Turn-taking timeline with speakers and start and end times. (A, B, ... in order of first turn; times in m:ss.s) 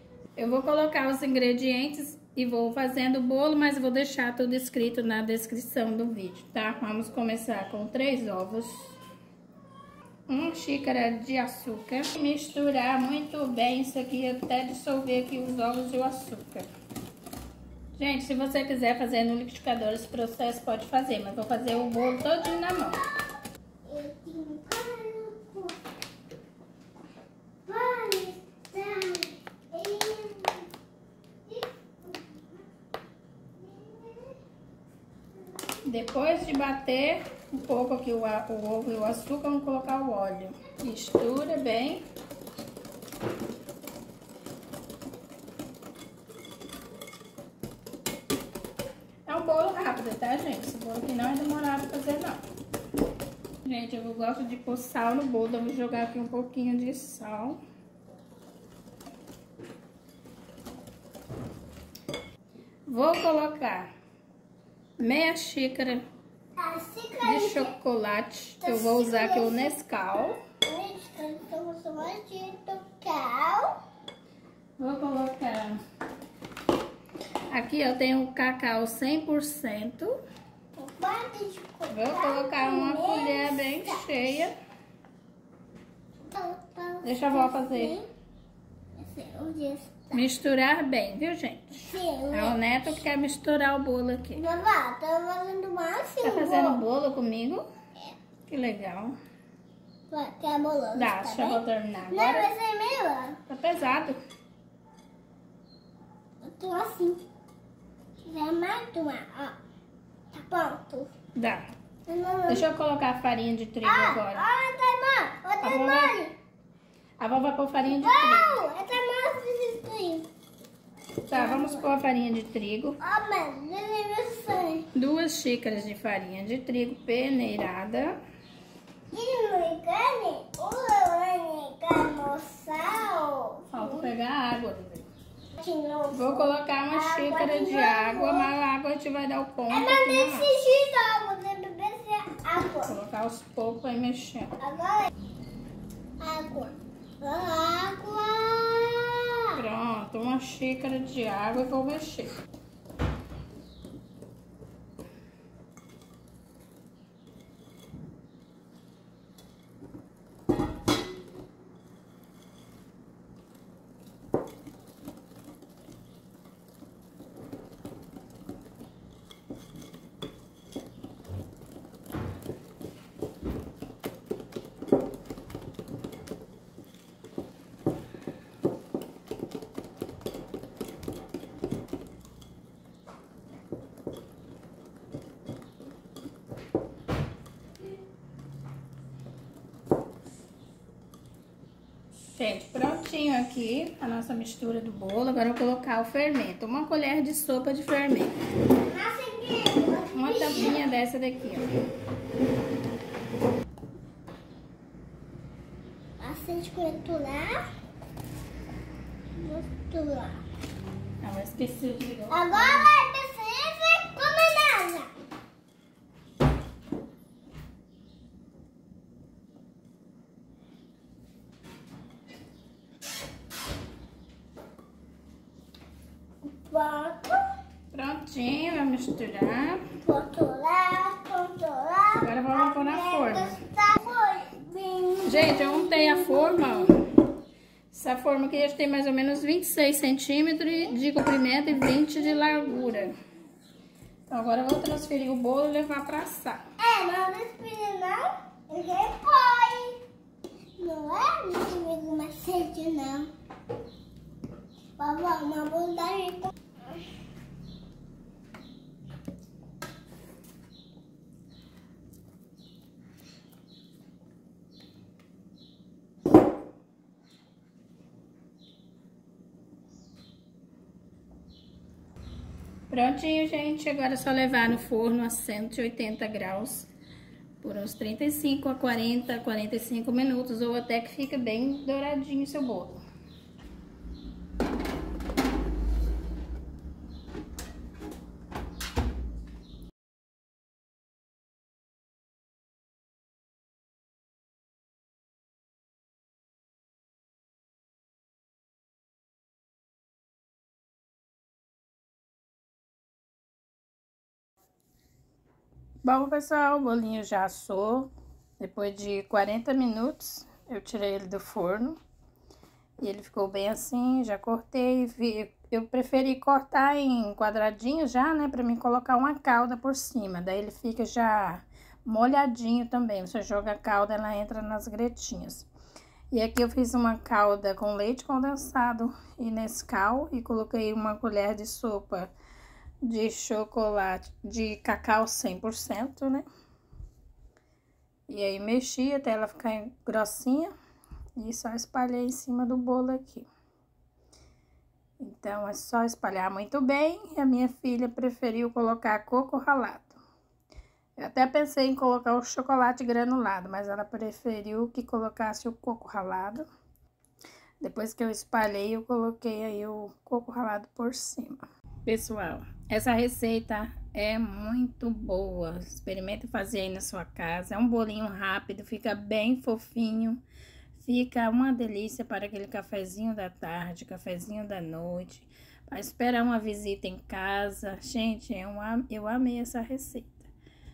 0:00.4-0:09.0 A
0:10.3-0:16.7 A
0:18.0-0:23.0 A
0:22.1-0:22.8 B
0:23.8-0:25.8 B
0:27.7-0:30.7 B
0:31.5-0:32.6 B
0:33.6-0:34.4 B
0:35.5-0:35.8 B
0:35.9-0:42.0 A
0:49.3-0:52.4 A
0:53.6-0:57.6 A
1:02.9-1:03.9 A
1:05.0-1:06.0 A
1:06.6-1:07.8 B
1:07.2-1:10.4 A
1:08.6-1:09.7 B
1:10.6-1:13.8 B
1:14.8-1:15.8 A
1:17.5-1:20.2 A
1:20.8-1:24.2 B
1:21.9-1:24.5 A
1:26.3-1:28.1 B
1:27.0-1:28.0 A
1:29.0-1:30.2 B
1:30.1-1:34.4 A
1:31.8-1:32.6 B
1:34.4-1:36.8 B
1:36.2-1:37.7 A
1:38.5-1:39.2 A
1:40.1-1:43.4 B
1:40.9-1:42.5 A
1:43.5-1:44.2 A
1:46.4-1:47.2 B
1:48.3-1:49.6 B
1:50.3-1:51.1 B
1:51.4-1:51.7 A
1:52.1-1:52.7 B
1:52.5-1:54.5 A
1:53.8-1:56.4 B
1:55.6-1:56.2 A
1:57.2-1:58.6 A
1:57.9-2:00.3 B
2:01.3-2:03.0 A
2:01.3-2:01.9 B
2:03.0-2:04.9 B
2:04.9-2:08.2 A
2:09.1-2:14.1 B
2:13.7-2:15.1 A
2:15.6-2:18.5 B
2:16.1-2:20.5 A
2:19.7-2:23.0 B
2:22.8-2:24.6 A
2:24.6-2:25.1 B
2:26.2-2:29.6 B
2:29.6-2:32.4 A
3:12.4-3:18.4 A
3:18.8-3:20.8 B
3:20.1-3:21.7 A
3:26.2-3:27.6 B
3:29.4-3:30.4 B
3:31.2-3:32.9 A
3:32.3-3:35.1 B
3:46.5-3:47.5 B
3:47.9-3:49.8 A
3:50.0-3:56.9 B
3:52.1-3:53.6 A
3:55.2-3:57.0 A
3:57.9-4:03.2 A
4:02.3-4:03.1 B
4:04.3-4:06.6 A
4:06.8-4:10.0 B
4:10.8-4:13.3 B
4:15.0-4:16.6 B
4:32.9-4:36.9 A
4:37.6-4:43.0 A
5:06.0-5:12.0 A
5:13.0-5:25.7 A
5:26.3-5:32.3 A
5:33.0-5:36.5 A
5:38.3-5:40.7 A
5:41.4-5:43.5 A
5:45.2-5:50.2 A
5:51.2-5:56.7 A
5:57.8-6:10.4 A
6:11.0-6:20.5 A